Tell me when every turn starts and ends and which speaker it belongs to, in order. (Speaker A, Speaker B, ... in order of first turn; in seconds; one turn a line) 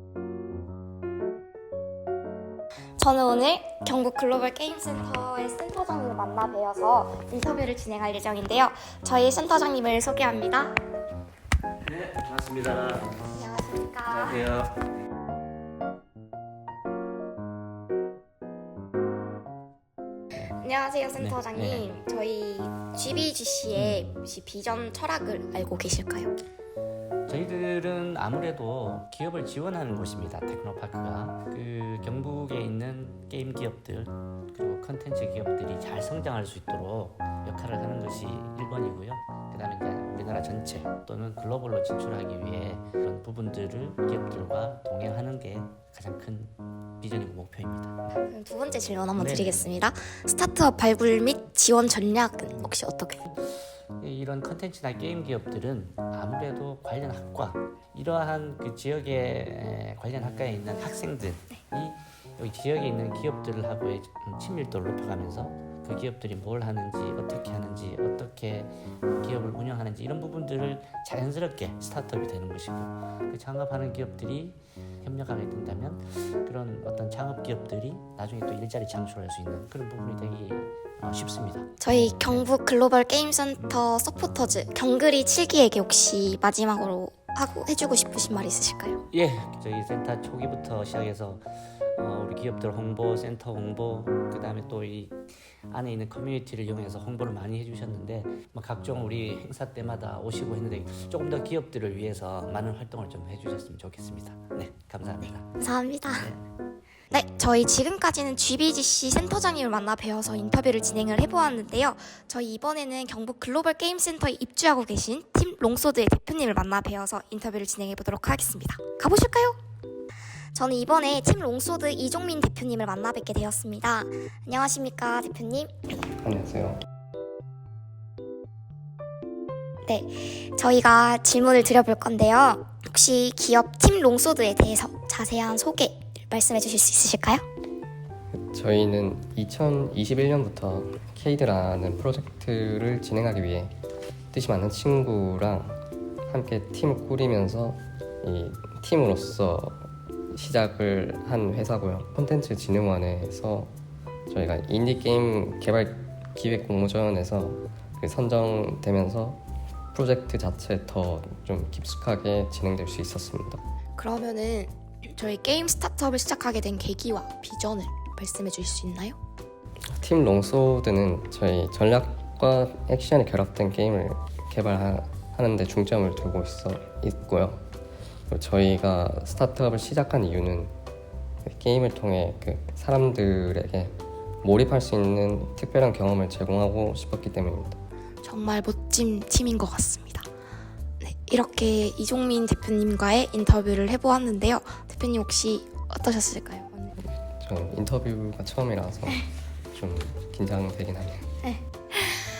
Speaker A: 3.0-10.7
Speaker B: 11.8-13.2
Speaker A: 13.3-14.4
Speaker B: 14.1-14.7
Speaker A: 20.4-26.3
Speaker B: 21.2-21.9
Speaker B: 23.7-24.1
Speaker B: 27.3-48.0
Speaker A: 48.3-53.2
Speaker B: 49.1-49.8
Speaker B: 53.3-82.5
Speaker A: 81.8-89.0
Speaker B: 89.1-106.4
Speaker A: 105.6-106.3
Speaker A: 107.1-119.6
Speaker A: 120.5-125.7
Speaker C: 126.2-126.8
Speaker A: 129.8-137.4
Speaker C: 138.5-143.7
Speaker C: 144.3-153.7
Speaker C: 154.3-159.4
Speaker C: 159.9-163.6
Speaker A: 164.0-169.2
Speaker C: 170.0-177.6
Speaker C: 178.3-180.7
Speaker C: 181.4-187.8
Speaker A: 188.2-190.2
Speaker A: 191.0-196.9
Speaker C: 197.4-201.3
Speaker A: 201.4-202.2